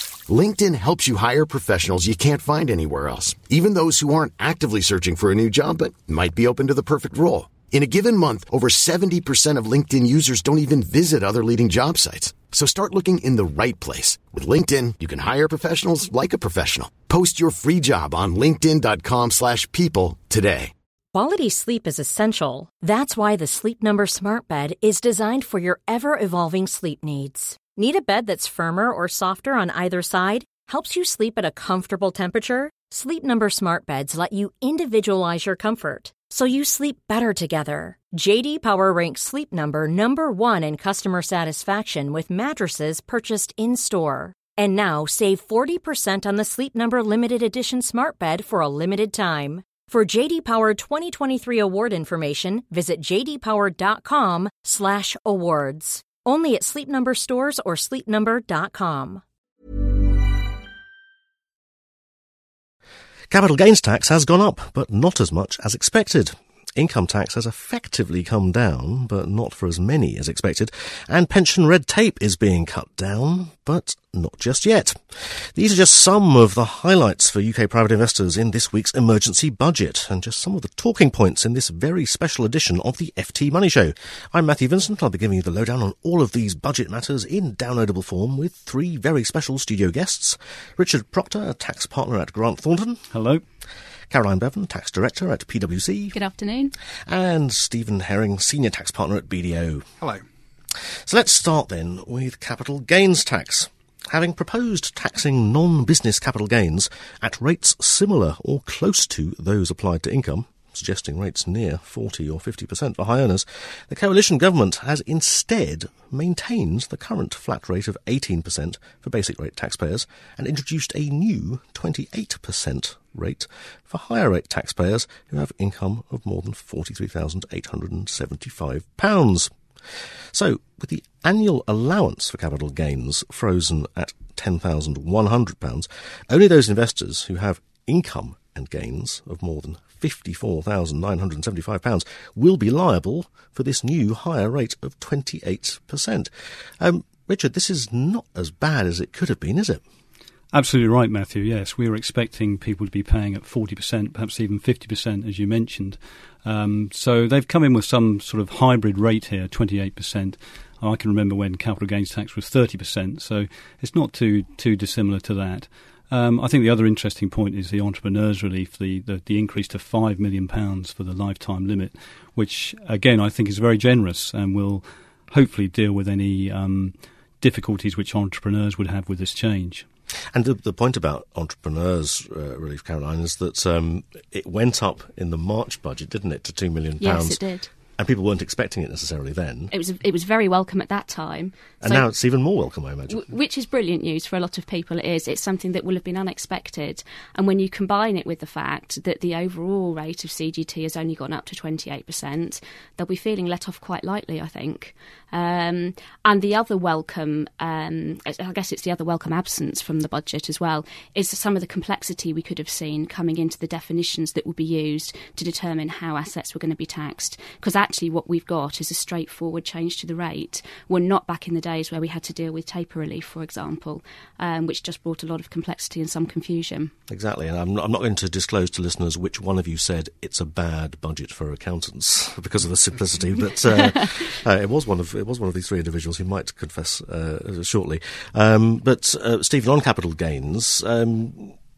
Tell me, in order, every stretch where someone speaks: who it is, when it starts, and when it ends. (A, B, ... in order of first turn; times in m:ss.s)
0:00.3-0:20.7 A
0:21.1-0:59.2 B
1:03.3-1:33.0 C
1:33.1-1:33.4 D
1:34.1-1:36.2 C
1:36.1-1:36.7 E
1:37.1-1:39.8 C
1:41.0-2:09.5 C
2:10.3-2:26.3 C
2:26.8-2:29.8 C
2:30.5-2:59.8 D
3:00.3-3:07.4 C
3:07.0-3:07.7 E
3:08.0-3:09.7 C
3:09.7-3:12.1 E
3:11.8-3:13.3 C
3:13.1-3:46.9 E
3:47.1-4:01.5 C